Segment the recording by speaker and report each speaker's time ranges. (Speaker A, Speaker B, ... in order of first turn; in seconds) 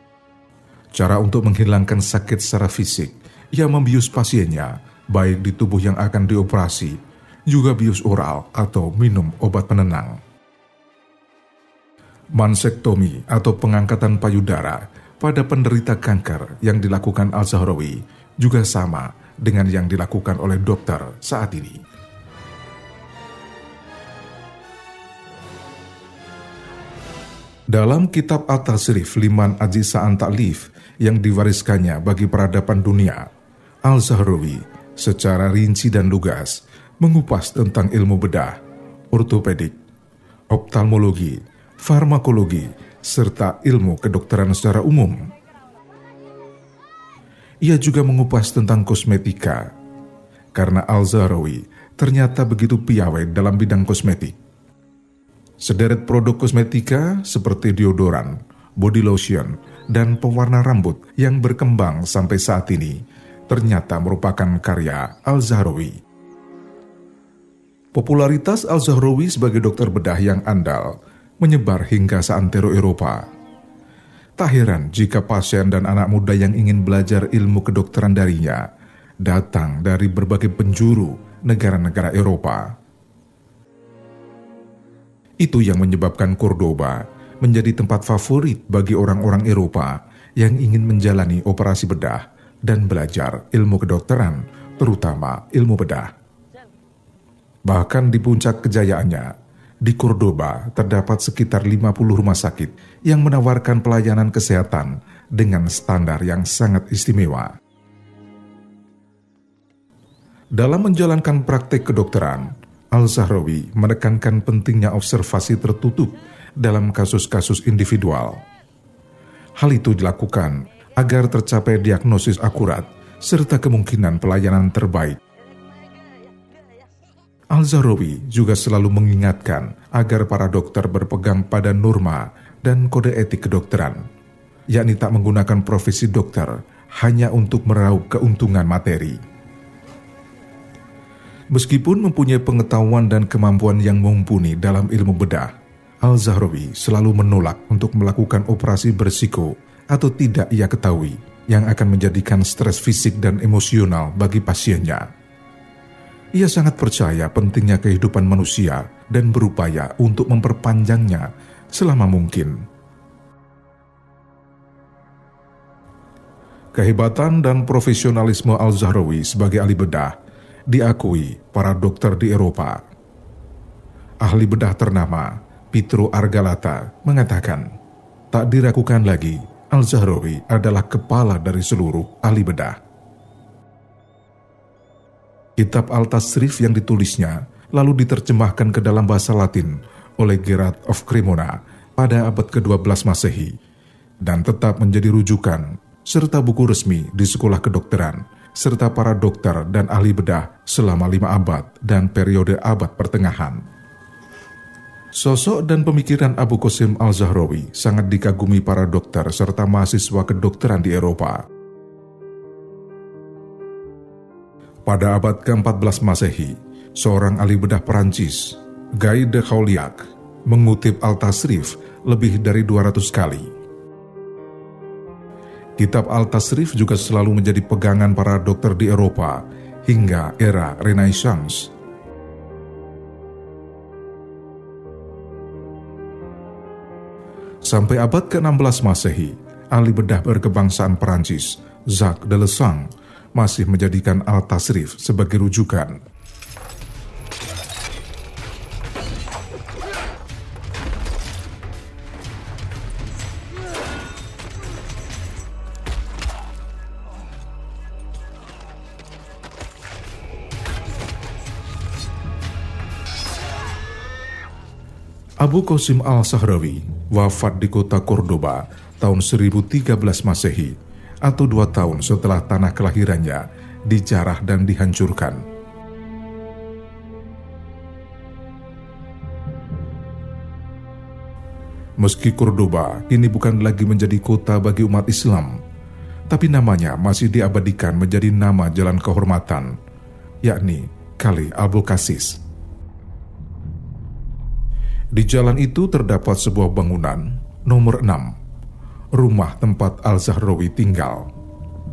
Speaker A: 0.9-10.2, 12.3-21.8, 27.7-33.3, 33.8-38.6, 39.1-39.8, 40.5-45.3, 47.6-49.7, 50.5-54.4, 55.6-66.0, 67.9-73.2, 74.4-78.7, 79.2-82.7, 85.4-96.1, 97.6-99.3, 99.8-107.5, 110.5-118.4, 119.6-125.2, 127.5-134.1, 134.7-139.2, 141.5-155.1, 156.3-162.7, 166.7-170.2, 170.7-172.8, 174.2-177.7, 178.3-182.8, 185.6-193.6, 194.2-203.6, 205.1-211.4, 214.8-223.5, 225.8-231.7, 237.6-246.0, 265.4-275.4, 282.0-285.6, 286.3-289.8, 290.4-292.4, 295.1-298.3, 299.1-301.3